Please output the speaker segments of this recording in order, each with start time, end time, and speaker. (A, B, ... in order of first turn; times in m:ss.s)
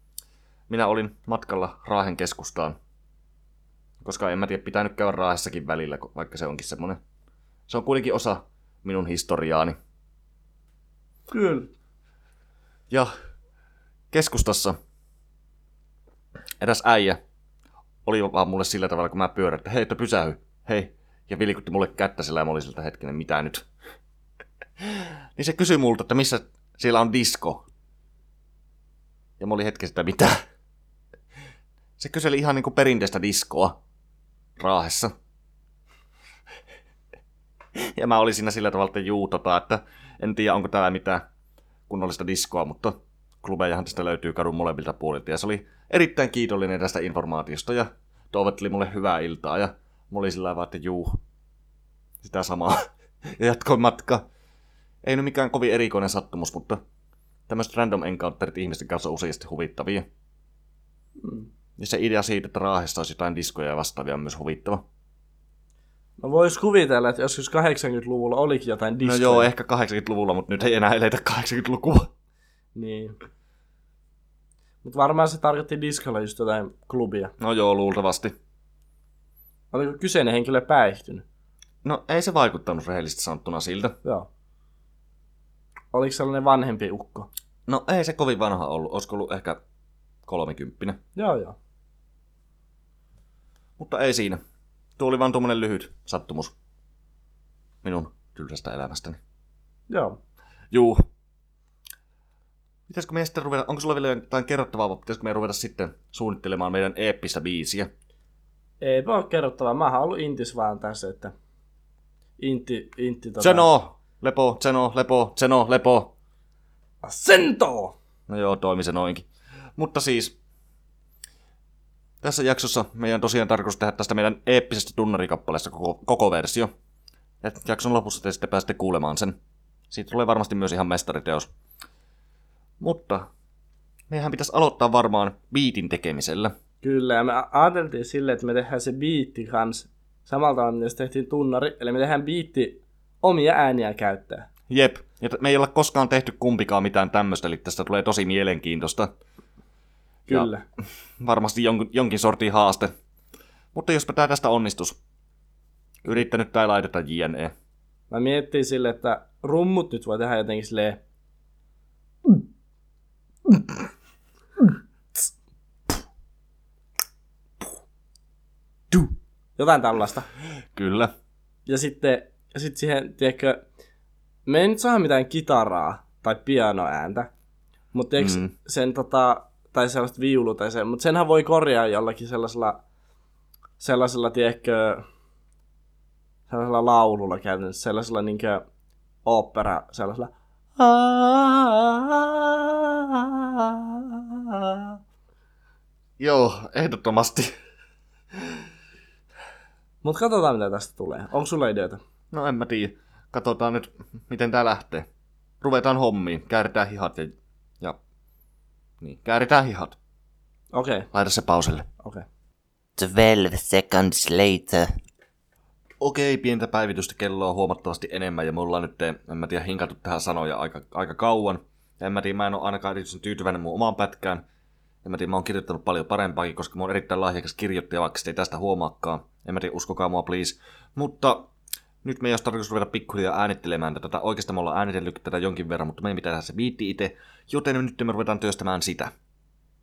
0:00.7-0:02.8 A
0:04.0-0:07.0 A
0:07.7-0:09.8 A
0:11.3-0:11.7 B
0:14.1-0:14.8 A
0:16.6-0:17.2 A
0:18.0-0:23.7 A
0:24.8-0:27.6 A
0:29.4-0:30.4 A
0:32.0-0:33.8 A
0:34.6-0:35.1 A
0:37.8-0:41.2 A
0:41.9-0:51.2 A
0:52.2-0:54.2 A
0:55.0-0:56.8 A
0:57.5-1:00.0 A
1:01.2-1:01.5 B
1:01.8-1:04.8 A
1:06.2-1:09.5 B
1:09.0-1:12.1 A
1:12.8-1:13.2 B
1:14.8-1:17.3 B
1:17.4-1:18.3 A
1:19.7-1:21.2 B
1:21.8-1:24.0 A
1:25.9-1:27.3 B
1:27.7-1:29.6 A
1:30.3-1:31.0 A
1:31.2-1:31.6 B
1:33.8-1:34.4 A
1:35.0-1:36.5 A
1:37.8-1:39.2 A
1:39.9-1:40.2 B
1:40.7-1:41.0 A
1:42.9-1:47.9 A
1:48.8-1:51.3 B
1:52.4-1:53.7 B
1:53.4-1:56.1 A
1:57.0-1:58.0 B
1:58.3-2:00.4 A
2:02.2-2:06.7 A
2:07.4-2:09.4 A
2:09.9-2:11.5 A
2:12.8-2:13.3 A
2:14.1-2:16.5 A
2:16.8-2:24.5 B
2:24.7-2:29.1 A
2:30.3-2:30.6 B
2:31.2-2:32.9 A
2:33.7-2:35.0 A
2:36.0-2:37.5 A
2:38.1-2:41.0 B
2:48.9-2:50.3 B
2:50.8-2:51.1 A
2:51.7-2:53.6 B
2:54.5-2:57.3 B
2:57.9-3:02.8 B
2:58.2-2:58.5 A
3:03.8-3:05.0 B
3:06.5-3:08.7 B
3:09.2-3:10.3 B
3:10.8-3:15.0 A
3:16.2-3:17.5 A
3:20.0-3:22.0 B
3:22.3-3:25.1 A
3:25.6-3:28.0 A
3:29.0-3:30.0 A
3:30.7-3:31.1 B
3:31.1-3:31.9 A
3:33.0-3:34.9 C
3:36.0-3:44.4 A
3:45.0-3:51.5 A
3:52.0-3:59.1 A